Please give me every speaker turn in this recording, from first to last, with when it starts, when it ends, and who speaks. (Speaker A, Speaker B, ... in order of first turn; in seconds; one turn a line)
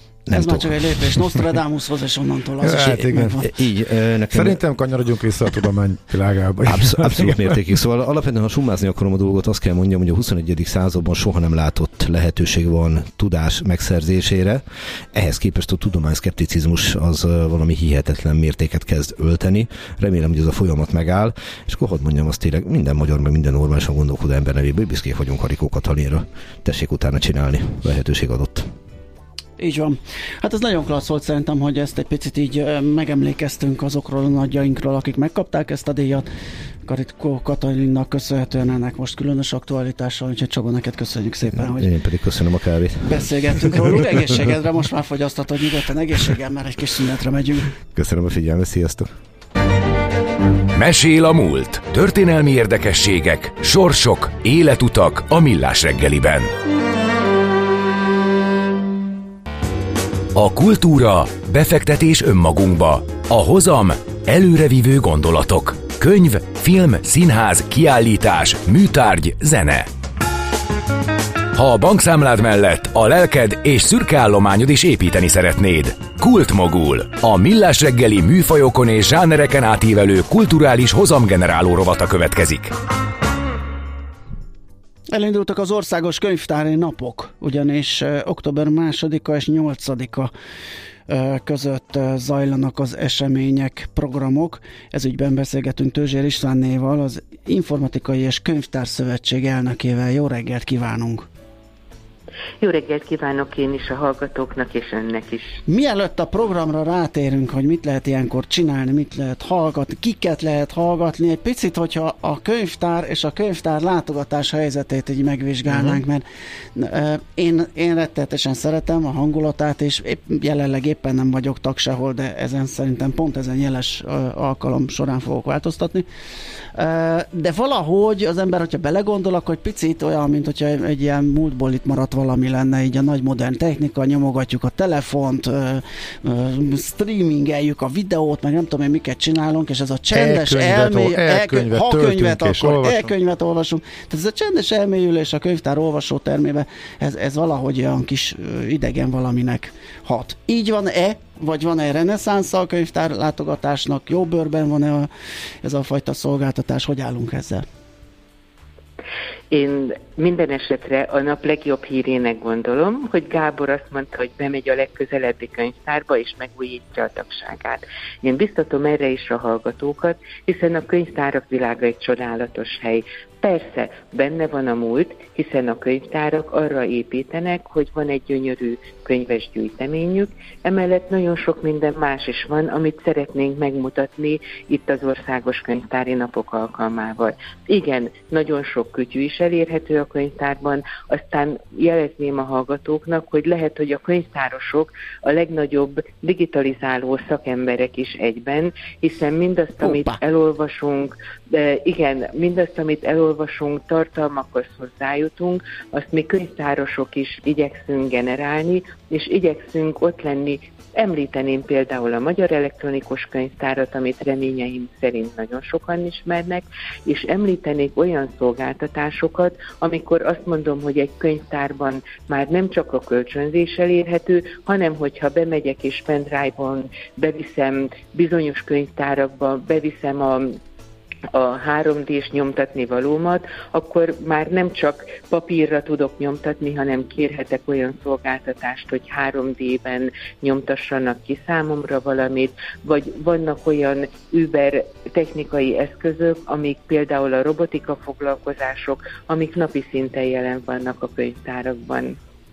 Speaker A: 0.3-1.0
Speaker B: 0.3-3.5
Speaker C: 2.6-3.4
Speaker A: 3.4-4.6
Speaker C: 4.3-7.7
Speaker A: 6.7-28.7
Speaker B: 29.6-36.3
Speaker B: 36.9-41.9
Speaker A: 41.6-44.0
Speaker B: 43.0-47.7
Speaker A: 47.9-49.1
Speaker D: 50.7-56.5
Speaker D: 60.4-69.9
Speaker D: 71.5-82.7
Speaker B: 85.1-90.3
Speaker B: 91.1-101.3
Speaker E: 102.6-105.6
Speaker B: 105.7-126.1
Speaker C: 115.7-116.0
Speaker B: 126.7-155.1
Speaker C: 140.1-143.1
Speaker B: 155.6-157.7
Speaker E: 159.5-230.6
Speaker B: 199.8-200.2
Speaker E: 231.3-252.2